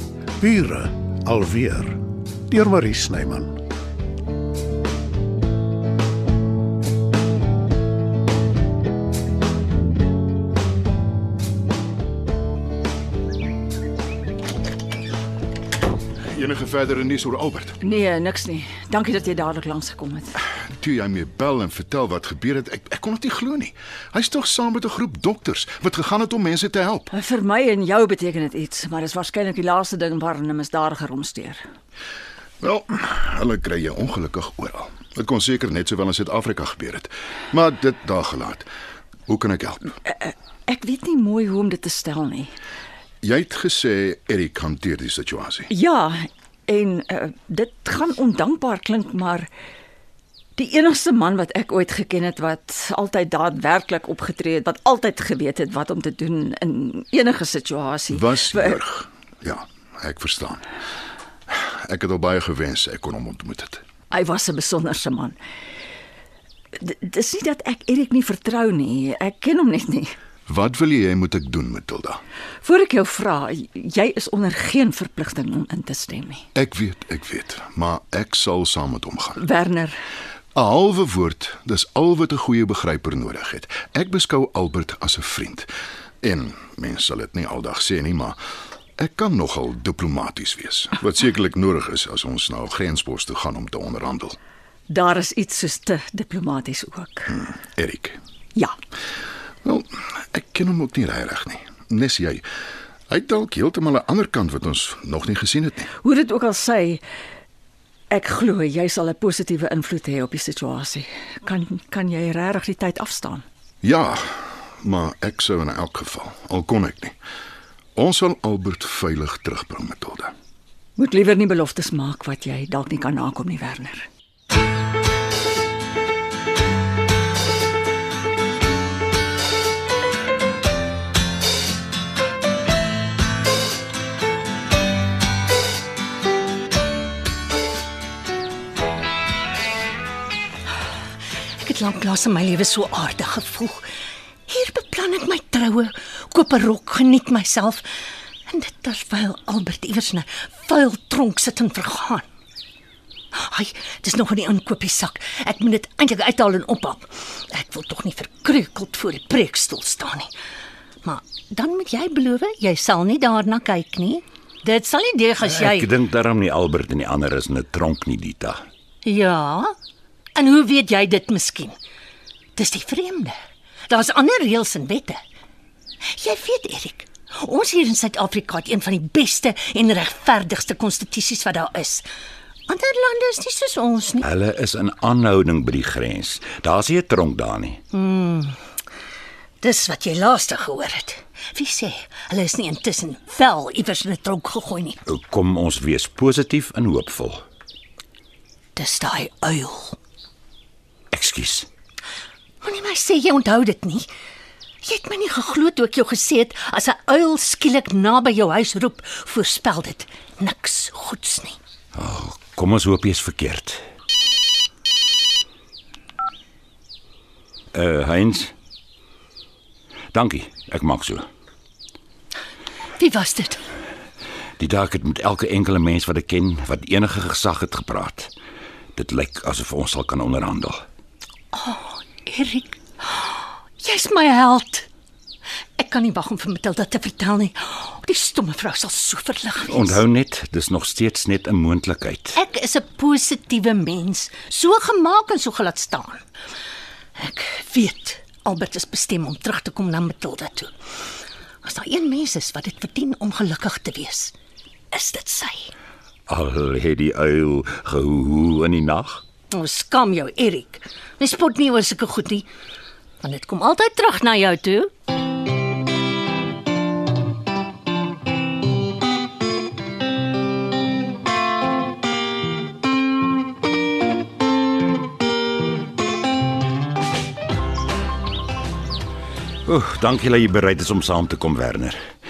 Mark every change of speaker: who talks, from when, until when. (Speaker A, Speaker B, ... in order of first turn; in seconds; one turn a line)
Speaker A: 0.4-3.6
Speaker B: 16.3-17.8
Speaker C: 17.8-20.4
Speaker B: 20.8-27.1
Speaker C: 27.1-31.6
Speaker B: 32.6-38.7
Speaker B: 39.3-39.9
Speaker C: 40.1-42.5
Speaker B: 43.2-45.7
Speaker C: 45.7-49.5
Speaker C: 50.6-58.8
Speaker B: 58.1-60.6
Speaker B: 61.5-63.8
Speaker C: 64.1-65.4
Speaker C: 66.8-70.2
Speaker B: 70.5-72.2
Speaker C: 72.6-76.4
Speaker B: 76.5-79.4
Speaker C: 79.4-80.0
Speaker B: 80.5-85.7
Speaker B: 86.2-88.4
Speaker B: 89.0-94.4
Speaker C: 94.9-97.3
Speaker B: 97.3-98.2
Speaker B: 99.7-102.5
Speaker B: 103.1-105.9
Speaker C: 106.0-107.0
Speaker C: 108.1-113.5
Speaker B: 113.8-117.2
Speaker B: 118.0-120.3
Speaker C: 121.0-124.1
Speaker D: 141.6-143.9
Speaker D: 144.5-152.2
Speaker D: 153.3-160.3
Speaker D: 161.0-165.9
Speaker E: 165.4-168.6
Speaker D: 169.1-169.7
Speaker D: 170.3-171.8
Speaker D: 172.6-173.4
Speaker D: 173.9-175.2
Speaker D: 176.1-182.1
Speaker D: 182.7-184.2
Speaker E: 184.2-187.8
Speaker D: 187.9-188.6
Speaker D: 189.6-195.0
Speaker E: 195.1-197.4
Speaker D: 198.8-200.0
Speaker E: 201.1-201.7
Speaker D: 202.6-204.1
Speaker D: 204.8-211.6
Speaker E: 211.9-213.8
Speaker E: 217.7-218.5
Speaker E: 220.1-221.2
Speaker D: 223.0-223.6
Speaker E: 224.6-228.3
Speaker E: 229.0-230.8
Speaker D: 231.5-234.9
Speaker D: 235.8-240.0
Speaker E: 239.7-242.4
Speaker D: 242.3-246.2
Speaker D: 247.2-250.7
Speaker D: 251.6-254.3
Speaker D: 254.9-255.7
Speaker E: 256.3-259.2
Speaker D: 259.5-262.5
Speaker D: 263.2-264.9
Speaker E: 279.7-282.0